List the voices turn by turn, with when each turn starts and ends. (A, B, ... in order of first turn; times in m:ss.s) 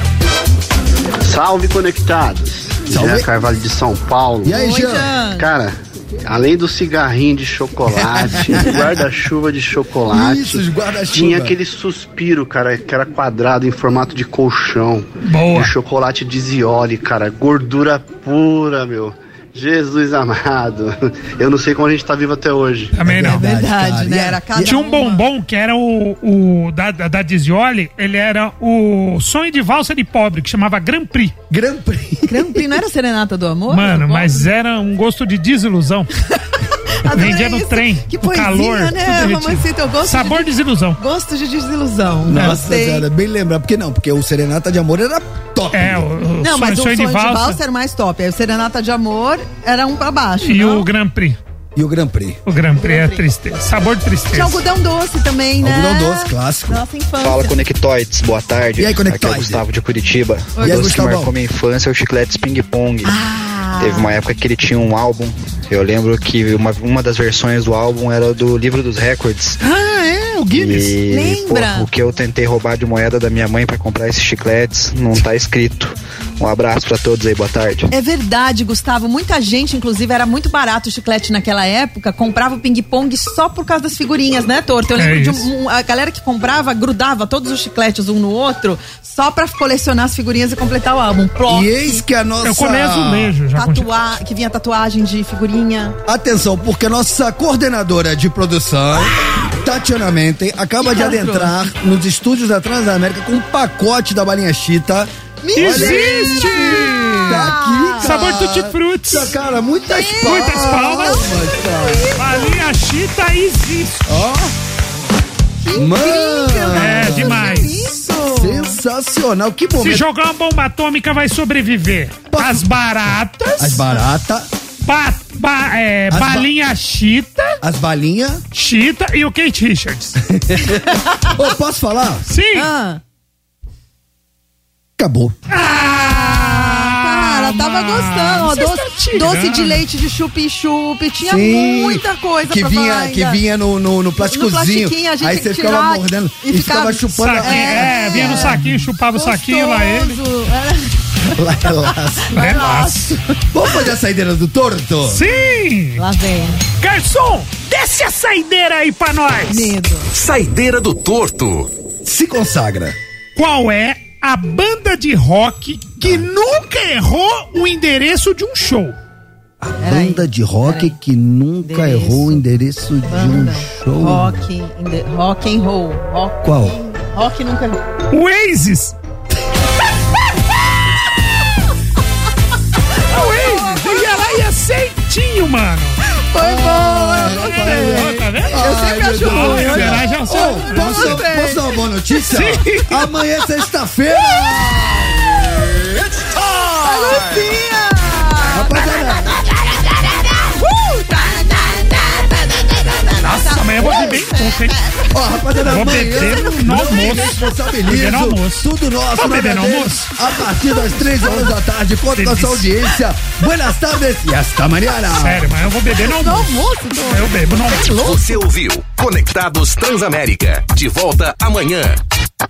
0:01.2-0:04.6 A
0:02.9-0:03.3 B
0:04.4-0:05.1 B
0:04.5-0:05.5 C
0:05.4-0:22.9 A
0:07.9-0:09.1 B
0:10.1-0:11.6 B
0:15.2-0:15.7 D
0:22.9-0:23.4 D
0:23.0-0:24.7 B
0:23.2-0:25.2 C
0:24.6-0:31.4 D
0:31.5-0:32.7 B
0:32.3-0:34.5 C
0:33.7-0:36.1 D
0:36.3-0:43.1 C
0:37.1-0:41.0 D
0:42.3-0:46.1 B
0:45.7-0:47.6 D
0:46.4-0:50.8 C
0:50.4-0:51.4 D
0:51.8-0:52.4 B
0:52.5-0:54.6 D
0:52.8-0:53.2 C
0:54.3-0:57.6 C
0:55.6-0:56.8 B
0:57.2-1:03.2 E
0:58.8-0:59.6 B
1:00.6-1:01.0 C
1:00.6-1:01.3 B
1:03.0-1:04.1 C
1:03.8-1:09.6 E
1:09.6-1:11.0 B
1:10.5-1:17.9 E
1:11.1-1:11.9 C
1:17.9-1:32.0 C
1:25.0-1:25.5 D
1:31.5-1:33.3 B
1:32.4-1:33.9 D
1:33.6-1:36.0 C
1:36.1-1:52.1 B
1:40.8-1:41.6 C
1:45.4-1:48.2 C
1:45.5-1:49.4 D
1:49.8-1:52.6 C
1:50.2-1:51.3 D
1:52.2-1:54.3 D
1:54.1-1:54.5 B
1:55.6-1:58.8 C
1:55.8-2:00.0 B
1:56.7-1:57.8 D
1:59.8-2:03.9 D
2:02.3-2:02.7 B
2:03.6-2:04.5 B
2:04.8-2:07.6 D
2:06.1-2:06.5 B
2:07.6-2:08.4 B
2:08.5-2:10.2 D
2:10.3-2:12.3 B
2:12.3-2:12.7 D
2:12.6-2:13.0 C
2:15.0-2:15.4 B
2:15.5-2:19.8 D
2:15.6-2:23.4 C
2:21.2-2:28.9 B
2:24.2-2:33.8 C
2:27.1-2:30.2 D
2:31.3-2:32.4 B
2:32.3-2:33.2 D
2:33.5-2:35.2 B
2:35.1-2:36.0 D
2:36.0-2:36.6 C
2:36.8-2:39.8 D
2:39.5-2:40.1 C
2:40.1-2:41.7 F
2:42.0-2:43.0 B
2:43.4-2:49.0 D
2:49.6-2:54.4 B
2:49.8-2:51.0 C
2:51.6-2:52.4 C
2:53.1-2:57.8 C
2:56.4-2:56.8 B
2:58.1-2:59.0 D
3:03.1-3:06.0 D
3:06.3-3:11.8 C
3:06.4-3:15.2 B
3:07.2-3:08.6 D
3:09.2-3:11.2 D
3:12.3-3:13.0 D
3:14.2-3:14.7 C
3:16.8-3:19.3 C
3:18.5-3:19.4 B
3:20.3-3:25.7 C
3:23.2-3:24.8 D
3:23.8-3:24.2 B
3:25.1-3:35.4 B
3:25.7-3:30.1 D
3:30.6-3:31.4 C
3:32.2-3:32.8 D
3:35.2-3:38.0 D
3:35.9-3:38.4 C
3:38.0-3:42.0 F